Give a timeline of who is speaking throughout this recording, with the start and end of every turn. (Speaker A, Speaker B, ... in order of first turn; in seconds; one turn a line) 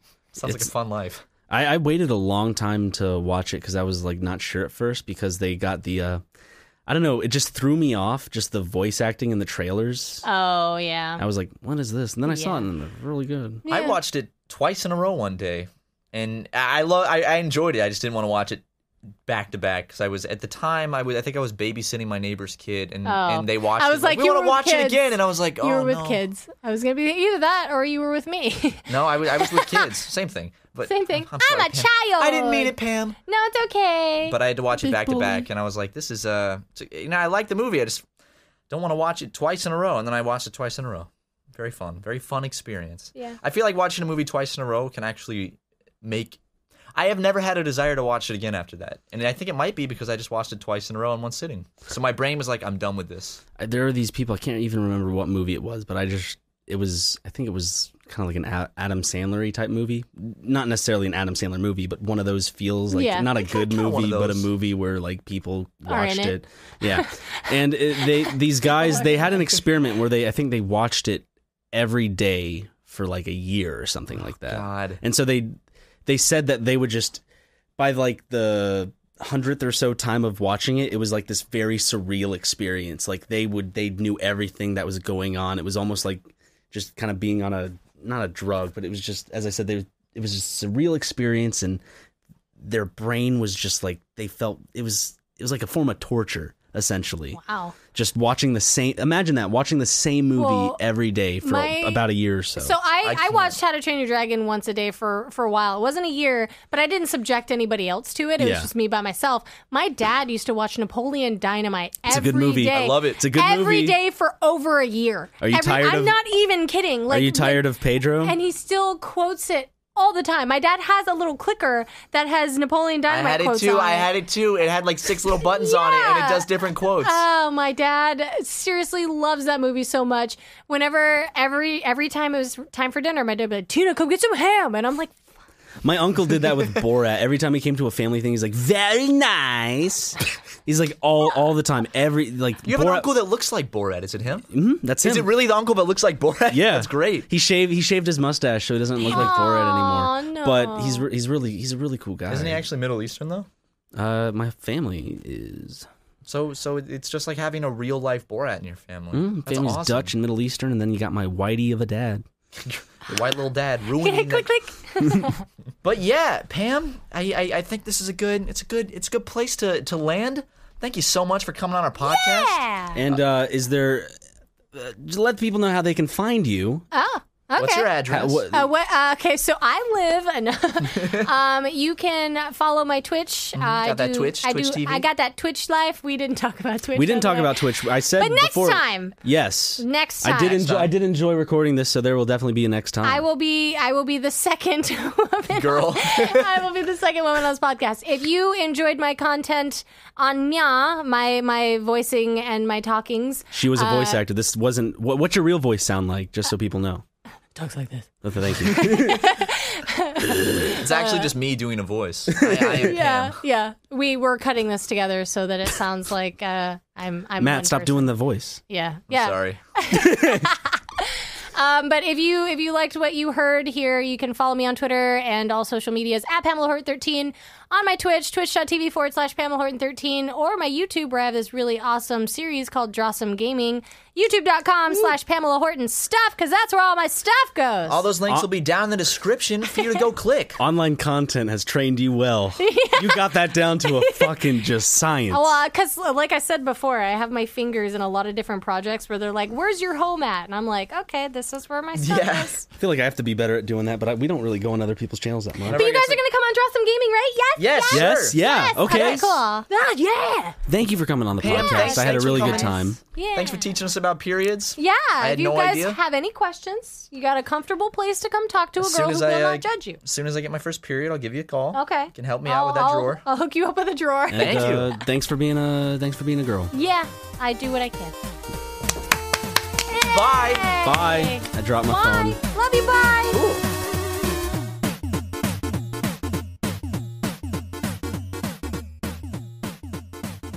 Speaker A: 0.3-1.2
Speaker B: 1.5-6.2
Speaker B: 6.8-10.2
Speaker C: 10.2-11.2
Speaker B: 11.2-13.6
Speaker C: 12.2-12.7
Speaker C: 13.6-14.0
Speaker A: 13.7-18.6
Speaker A: 19.3-26.2
Speaker C: 23.0-25.1
Speaker C: 25.6-29.9
Speaker A: 28.9-33.2
Speaker C: 30.9-32.7
Speaker C: 33.3-35.5
Speaker A: 34.2-38.0
Speaker A: 38.7-46.4
Speaker A: 46.9-53.4
Speaker B: 53.6-75.5
Speaker C: 62.9-63.5
Speaker A: 63.5-64.5
Speaker C: 65.9-66.4
Speaker C: 68.0-69.4
Speaker A: 74.5-75.0
Speaker B: 76.0-77.2
Speaker B: 77.8-91.8
Speaker B: 92.6-97.4
Speaker C: 97.3-97.7
Speaker B: 97.9-102.8
Speaker C: 100.3-100.8
Speaker C: 101.4-102.0
Speaker C: 102.6-117.6
Speaker A: 103.0-103.6
Speaker B: 108.4-108.7
Speaker B: 112.0-114.0
Speaker A: 112.7-113.2
Speaker B: 115.4-116.2
Speaker B: 117.1-118.4
Speaker C: 118.2-124.1
Speaker A: 123.1-127.2
Speaker C: 125.4-135.1
Speaker B: 135.8-143.1
Speaker A: 142.6-144.5
Speaker B: 144.5-145.4
Speaker A: 145.0-147.3
Speaker B: 146.5-152.7
Speaker C: 149.0-151.1
Speaker A: 152.3-153.5
Speaker B: 153.9-155.9
Speaker A: 156.2-160.1
Speaker B: 159.1-162.2
Speaker A: 162.7-164.5
Speaker C: 164.0-165.4
Speaker A: 165.8-172.6
Speaker C: 172.0-173.0
Speaker B: 172.9-174.1
Speaker B: 174.7-176.8
Speaker C: 176.9-177.9
Speaker A: 177.6-178.5
Speaker B: 178.1-178.7
Speaker C: 178.5-189.1
Speaker A: 180.9-181.3
Speaker A: 183.6-185.1
Speaker B: 186.9-193.2
Speaker C: 189.8-190.7
Speaker A: 190.5-190.9
Speaker C: 193.0-204.2
Speaker A: 195.5-196.5
Speaker B: 203.5-207.0
Speaker C: 207.5-208.1
Speaker B: 208.2-209.4
Speaker C: 208.6-211.3
Speaker A: 210.8-213.4
Speaker B: 212.3-212.9
Speaker C: 212.9-218.1
Speaker B: 217.4-218.6
Speaker C: 218.7-238.1
Speaker A: 219.1-219.6
Speaker B: 219.9-220.5
Speaker A: 237.9-240.6
Speaker B: 240.6-245.6
Speaker C: 242.6-244.4
Speaker C: 245.3-252.7
Speaker A: 252.0-252.6
Speaker B: 252.8-255.8
Speaker A: 255.6-256.2
Speaker C: 255.7-260.6
Speaker A: 257.6-259.2
Speaker B: 257.9-259.4
Speaker B: 260.7-263.0
Speaker A: 261.4-266.0
Speaker C: 261.4-263.7
Speaker C: 264.8-270.0
Speaker A: 268.8-273.2
Speaker C: 271.7-274.9
Speaker B: 274.3-276.7
Speaker A: 274.4-274.9
Speaker C: 276.7-278.2
Speaker C: 279.9-283.4
Speaker A: 280.0-280.7
Speaker B: 280.8-282.4
Speaker A: 283.3-283.6